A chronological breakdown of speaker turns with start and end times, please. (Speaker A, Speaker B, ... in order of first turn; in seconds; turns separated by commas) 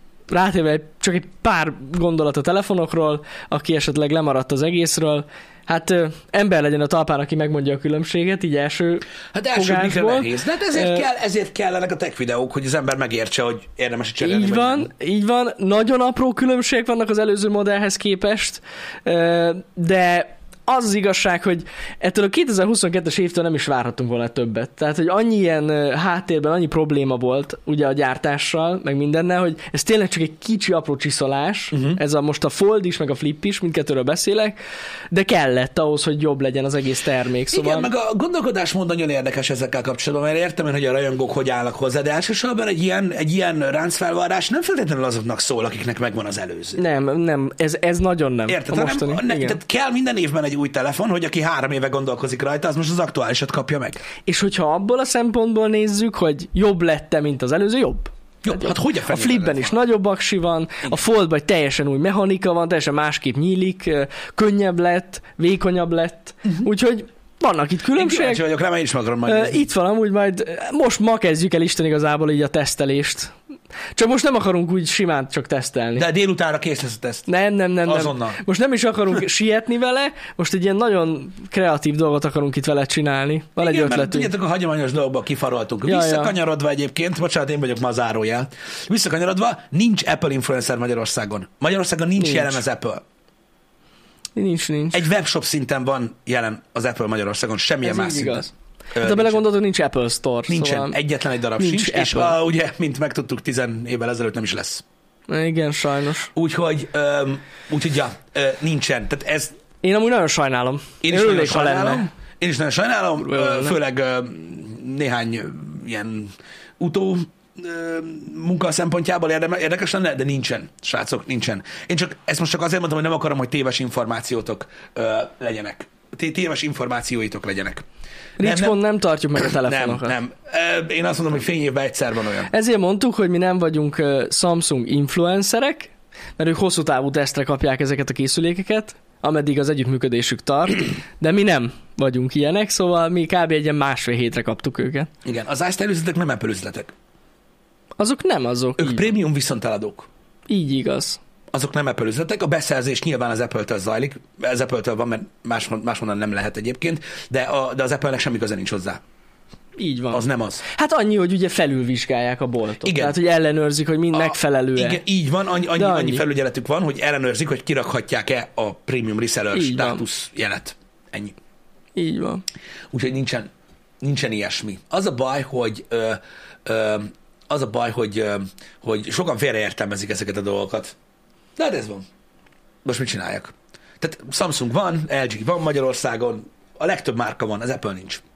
Speaker A: 0.3-11.0, Speaker B: 9.3-14.9, Speaker A: 14.2-34.6, Speaker B: 31.7-32.0, Speaker A: 35.1-37.9, Speaker B: 37.5-46.8, Speaker A: 46.8-49.6, Speaker B: 48.5-54.0, Speaker A: 54.2-68.4, Speaker B: 58.4-59.8, Speaker B: 67.9-69.7, Speaker A: 69.2-73.3, Speaker A: 74.0-76.0, Speaker B: 76.0-77.3, Speaker A: 77.3-84.3, Speaker B: 77.8-78.4, Speaker B: 83.6-93.0, Speaker A: 85.8-86.3, Speaker A: 92.2-92.6, Speaker A: 94.3-95.1, Speaker B: 94.9-99.4, Speaker A: 97.8-101.0, Speaker B: 100.5-104.8, Speaker A: 101.6-102.4, Speaker A: 105.3-106.3, Speaker B: 106.3-109.5, Speaker A: 109.8-112.1, Speaker B: 111.0-127.8, Speaker A: 113.2-113.8, Speaker A: 128.4-130.2, Speaker B: 128.4-128.8, Speaker B: 129.4-132.5, Speaker A: 132.5-145.1, Speaker B: 145.2-146.9, Speaker A: 148.0-149.1, Speaker B: 148.8-150.1, Speaker A: 150.5-151.2, Speaker B: 151.5-159.0, Speaker A: 159.8-165.0, Speaker B: 160.1-160.6, Speaker B: 162.8-163.2, Speaker B: 164.1-171.3, Speaker A: 165.7-166.2, Speaker A: 169.5-170.0, Speaker A: 171.9-172.4, Speaker B: 172.9-173.5, Speaker B: 174.0-180.9, Speaker B: 181.6-182.1, Speaker B: 182.8-188.2